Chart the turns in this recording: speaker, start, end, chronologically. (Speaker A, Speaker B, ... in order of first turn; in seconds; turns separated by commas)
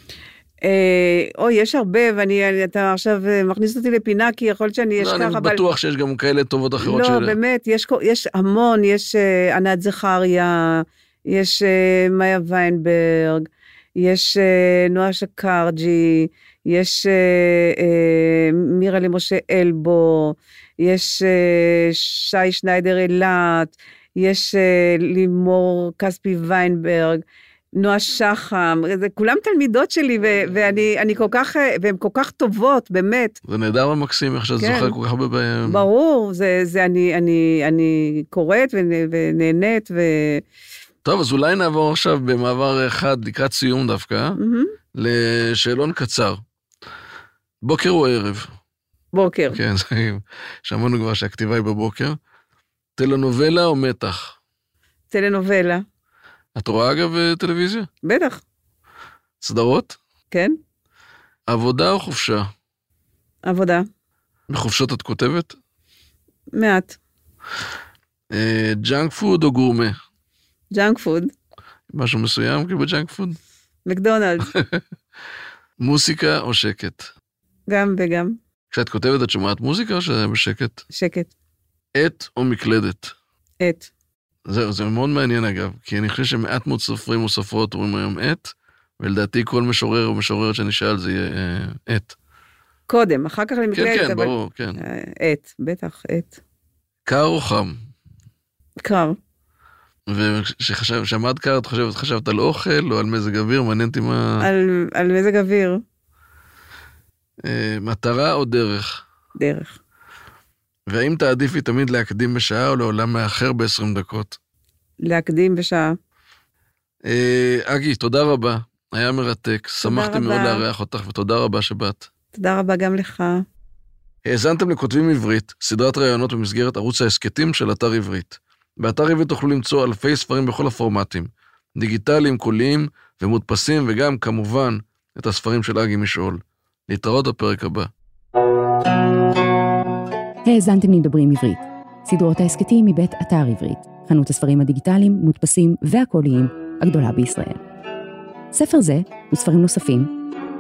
Speaker A: 0.6-5.6, Speaker B: 5.0-7.4, Speaker A: 6.8-27.2, Speaker A: 27.8-33.4, Speaker B: 33.5-35.9, Speaker A: 34.6-35.0, Speaker A: 35.6-40.4, Speaker B: 41.0-44.4, Speaker A: 44.4-44.7, Speaker B: 44.9-46.4, Speaker B: 47.6-48.5, Speaker A: 49.1-49.6, Speaker B: 49.5-52.2, Speaker B: 53.0-54.4, Speaker A: 55.1-55.8, Speaker B: 56.5-57.9, Speaker A: 58.0-58.4, Speaker B: 59.4-60.0, Speaker A: 60.3-60.6, Speaker B: 61.5-62.5, Speaker A: 63.4-63.9, Speaker B: 64.5-65.6, Speaker A: 66.5-67.0, Speaker B: 68.3-70.0, Speaker A: 70.7-71.3, Speaker B: 71.9-73.4, Speaker A: 73.9-74.5, Speaker B: 74.5-74.8, Speaker B: 75.8-77.1, Speaker A: 77.7-78.4, Speaker B: 78.7-80.8, Speaker A: 80.9-81.3, Speaker B: 81.9-83.2, Speaker A: 83.6-83.9, Speaker B: 84.5-92.2, Speaker A: 92.9-96.4, Speaker B: 93.7-94.8, Speaker B: 97.1-97.8, Speaker A: 98.8-99.2, Speaker B: 100.1-104.5, Speaker A: 104.4-105.8, Speaker B: 107.4-109.0, Speaker A: 109.4-109.8, Speaker B: 110.9-114.4, Speaker A: 115.0-116.0, Speaker B: 117.0-122.1, Speaker A: 119.8-120.7, Speaker A: 122.3-123.4, Speaker B: 124.2-137.9, Speaker C: 140.4-147.6, Speaker C: 148.5-150.1